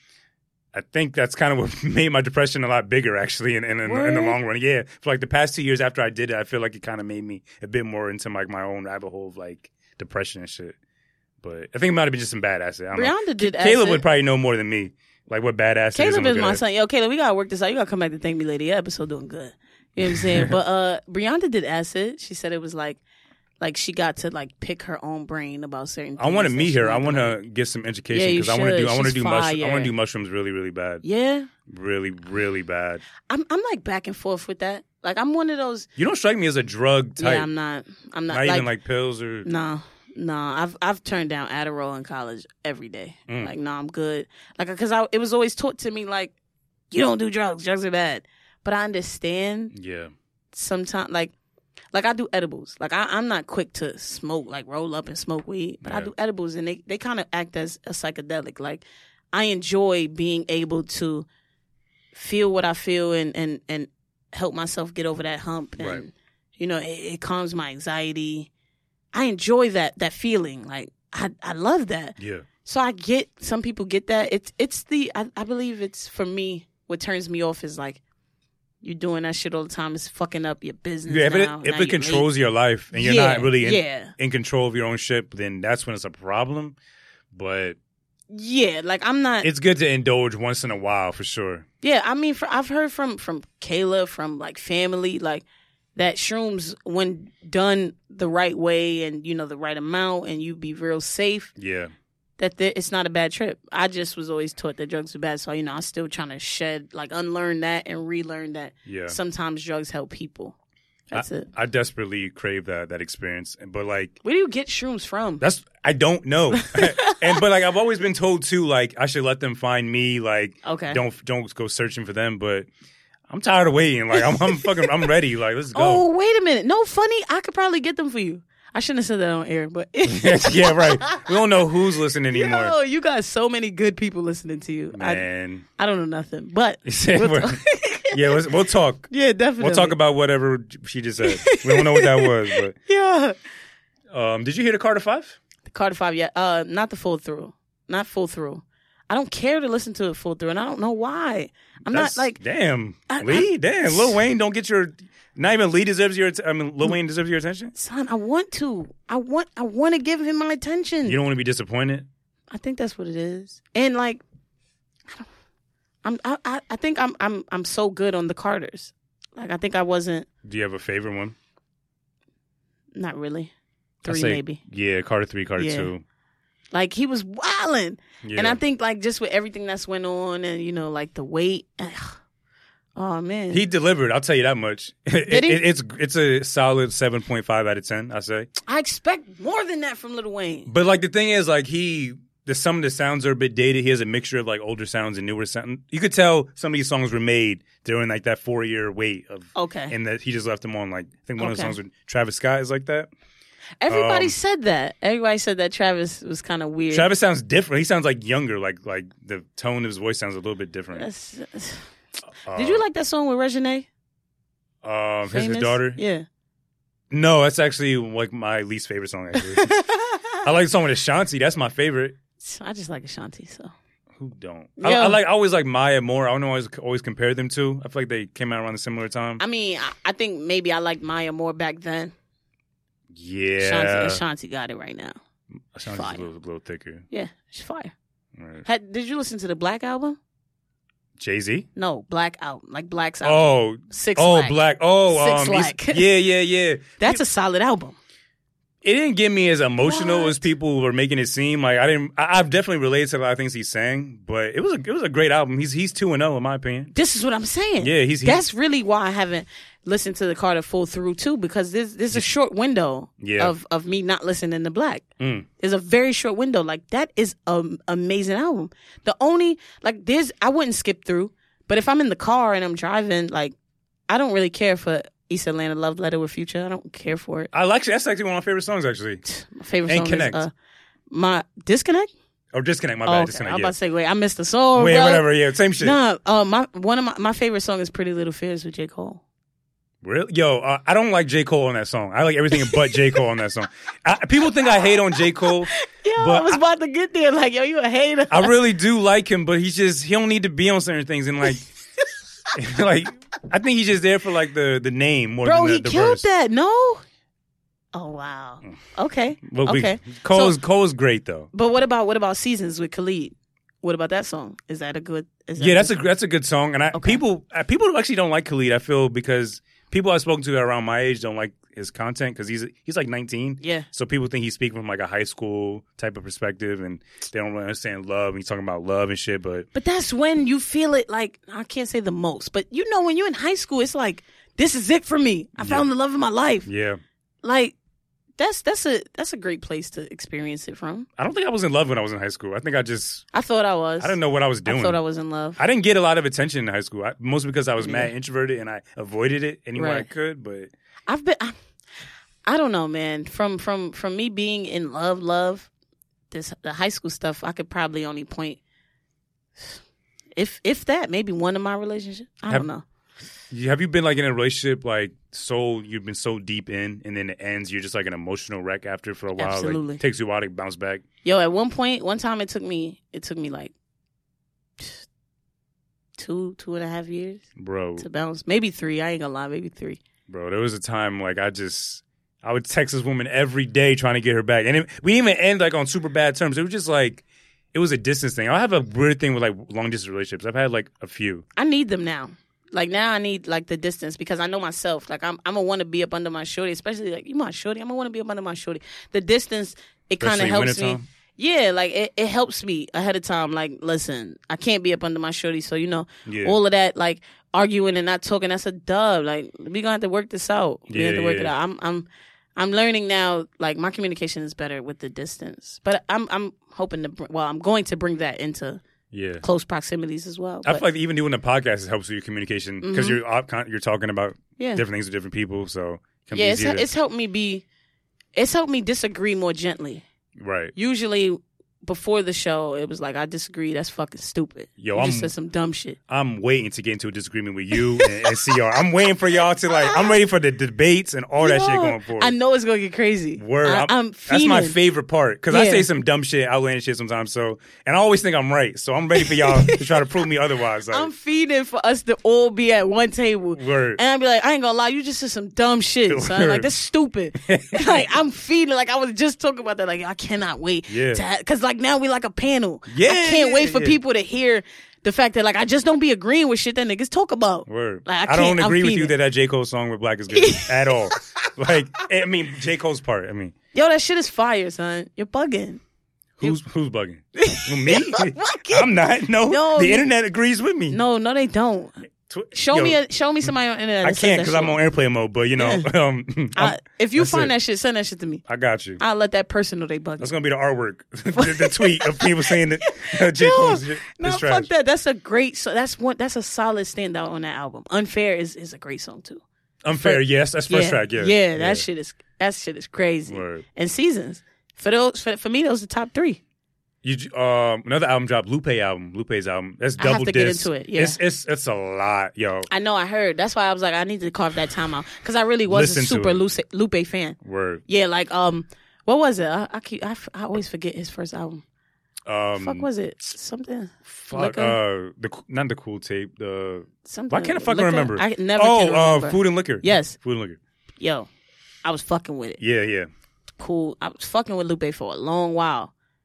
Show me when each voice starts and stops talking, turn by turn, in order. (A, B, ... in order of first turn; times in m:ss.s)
0:00.7-0:10.8 A
0:03.8-0:04.4 B
0:11.4-0:16.6 A
0:12.9-0:14.0 B
0:15.9-0:23.0 B
0:20.1-0:20.5 A
0:23.6-0:27.4 B
0:26.2-0:31.0 A
0:28.1-0:29.9 B
0:31.0-0:31.5 B
0:31.7-0:33.0 A
0:33.3-0:35.9 B
0:36.0-0:37.5 A
0:37.2-0:38.7 B
0:38.3-0:39.5 A
0:39.4-0:46.3 B
0:46.9-0:49.7 B
0:49.7-0:50.1 A
0:50.5-0:51.3 B
0:51.9-1:01.3 B
0:55.8-0:56.1 A
1:02.1-1:08.5 B
1:09.1-1:18.0 B
1:12.2-1:12.5 A
1:18.8-1:22.3 B
1:21.1-1:26.8 A
1:22.9-1:24.1 B
1:27.3-1:27.8 A
1:28.3-1:29.5 B
1:29.4-1:31.6 A
1:31.8-1:35.4 B
1:36.0-1:41.5 B
1:41.6-1:41.9 A
1:42.4-1:50.6 B
1:48.9-1:49.2 A
1:51.1-1:51.5 B
1:51.1-1:54.2 A
1:54.2-1:55.4 B
1:55.4-2:02.7 A
1:56.5-1:57.4 B
2:00.6-2:01.0 B
2:03.3-2:06.0 A
2:04.1-2:05.0 B
2:05.7-2:11.4 B
2:10.1-2:12.8 A
2:12.3-2:15.2 B
2:14.9-2:15.6 A
2:15.8-2:18.4 B
2:16.9-2:17.6 A
2:18.1-2:22.8 A
2:19.1-2:20.0 B
2:21.2-2:23.4 B
2:24.1-2:25.4 A
2:25.7-2:32.4 B
2:31.9-2:37.7 A
2:33.1-2:34.2 B
2:37.8-2:41.2 B
2:41.0-2:42.1 A
2:42.5-2:44.2 B
2:46.0-2:50.3 B
2:50.4-2:51.4 A
2:53.0-2:53.5 B
2:54.0-2:54.6 B
2:54.1-2:56.0 A
2:55.6-2:55.9 B
2:56.7-3:02.2 B
2:58.2-2:58.6 A
3:03.0-3:03.6 B
3:03.5-3:08.5 A
3:05.3-3:05.6 B
3:08.7-3:10.7 B
3:10.7-3:23.1 A
3:19.6-3:19.9 B
3:21.4-3:21.8 B
3:23.8-3:27.1 B
3:23.9-3:24.4 A
3:26.9-3:31.1 A
3:30.9-3:31.9 B
3:32.5-3:32.8 A
3:32.5-3:33.9 B
3:34.8-3:36.0 A
3:35.3-3:36.2 B
3:37.1-3:39.7 A
3:39.4-3:40.4 B
3:40.4-3:42.2 A
3:42.4-3:43.7 B
3:44.2-3:49.4 A
3:44.8-3:45.2 B
3:49.4-3:52.1 B
3:53.1-3:54.2 A
3:53.6-3:55.2 B
3:55.7-3:57.0 A
3:55.9-3:56.2 B
3:57.1-3:57.9 B
3:58.4-3:58.6 A
3:58.6-4:00.2 B
4:01.2-4:01.7 A
4:01.8-4:06.1 B
4:03.2-4:07.2 A
4:07.0-4:08.0 B
4:08.8-4:16.9 A
4:09.8-4:10.4 B
4:16.9-4:25.1 B
4:17.8-4:18.4 A
4:23.2-4:23.5 A
4:25.2-4:25.5 A
4:25.6-4:33.6 B
4:34.1-4:37.5 B
4:37.5-4:39.2 A
4:39.2-4:40.5 B
4:39.9-4:40.4 A
4:41.1-4:42.1 B
4:42.5-4:43.7 A
4:43.0-4:45.3 B
4:44.8-4:46.0 A
4:45.8-4:49.2 B
4:50.0-4:56.6 A
4:52.5-4:53.2 B
4:55.7-4:58.5 B
4:58.3-5:01.7 A
5:02.5-5:06.2 A
5:05.4-5:07.0 B
5:07.9-5:10.6 B
5:09.4-5:11.5 A
5:11.5-5:16.0 B
5:15.6-5:29.7 A
5:16.9-5:17.2 B
5:23.6-5:23.9 B
5:29.8-5:36.7 B
5:35.6-5:35.9 A
5:36.7-5:37.0 A
5:37.4-5:37.8 B
5:38.4-5:41.1 B
5:41.2-5:43.3 A
5:43.3-5:45.6 B
5:44.0-5:45.0 A
5:45.6-5:50.7 A
5:47.8-5:48.1 B
5:49.8-5:50.1 B
5:51.1-5:51.5 B
5:52.5-5:55.7 B
5:56.3-5:58.6 B
6:00.4-6:02.8 B
6:03.5-6:11.0 A
6:09.4-6:10.0 B
6:11.2-6:13.7 B
6:14.8-6:15.1 B
6:16.2-6:17.4 B
6:17.6-6:18.1 A
6:18.0-6:20.0 B
6:20.3-6:31.5 A
6:31.6-6:58.8 B
6:40.2-6:41.0 A
6:46.3-6:46.6 A
6:50.9-6:51.5 A
6:59.1-6:59.4 A
6:59.4-7:00.8 B
7:00.6-7:06.9 A
7:02.8-7:03.2 B
7:04.6-7:04.8 B
7:06.3-7:07.7 B
7:08.4-7:10.1 B
7:10.4-7:10.7 A
7:10.8-7:16.0 B
7:14.8-7:15.3 A
7:16.1-7:22.4 A
7:17.8-7:18.6 B
7:19.7-7:20.1 B
7:21.4-7:24.8 B
7:23.4-7:31.1 A
7:25.5-7:25.9 B
7:29.2-7:30.2 B
7:30.9-7:49.1 B
7:33.6-7:34.0 A
7:36.1-7:36.7 A
7:37.4-7:38.1 A
7:40.9-7:41.2 A
7:42.9-7:44.0 A
7:47.7-7:53.5 A
7:50.3-7:51.4 B
7:53.7-7:55.8 B
7:56.4-8:01.0 A
7:57.4-8:00.1 B
8:00.9-8:01.9 B
8:02.3-8:03.0 A
8:02.5-8:04.8 B
8:04.0-8:07.5 A
8:05.6-8:05.9 B
8:06.5-8:08.4 B
8:08.5-8:09.0 A
8:09.0-8:10.3 B
8:10.2-8:14.7 A
8:11.4-8:26.4 B
8:19.8-8:21.8 A
8:23.3-8:23.6 A
8:27.0-8:32.7 A
8:30.0-8:31.2 B
8:32.7-8:37.4 B
8:35.7-8:36.4 A
8:37.4-8:37.8 A
8:37.9-8:41.6 B
8:42.3-8:42.9 A
8:42.6-8:44.8 B
8:44.1-8:50.6 A
8:47.0-8:50.2 B
8:51.0-8:51.3 B
8:51.8-8:52.6 B
8:52.6-8:53.1 A
8:53.6-8:55.9 B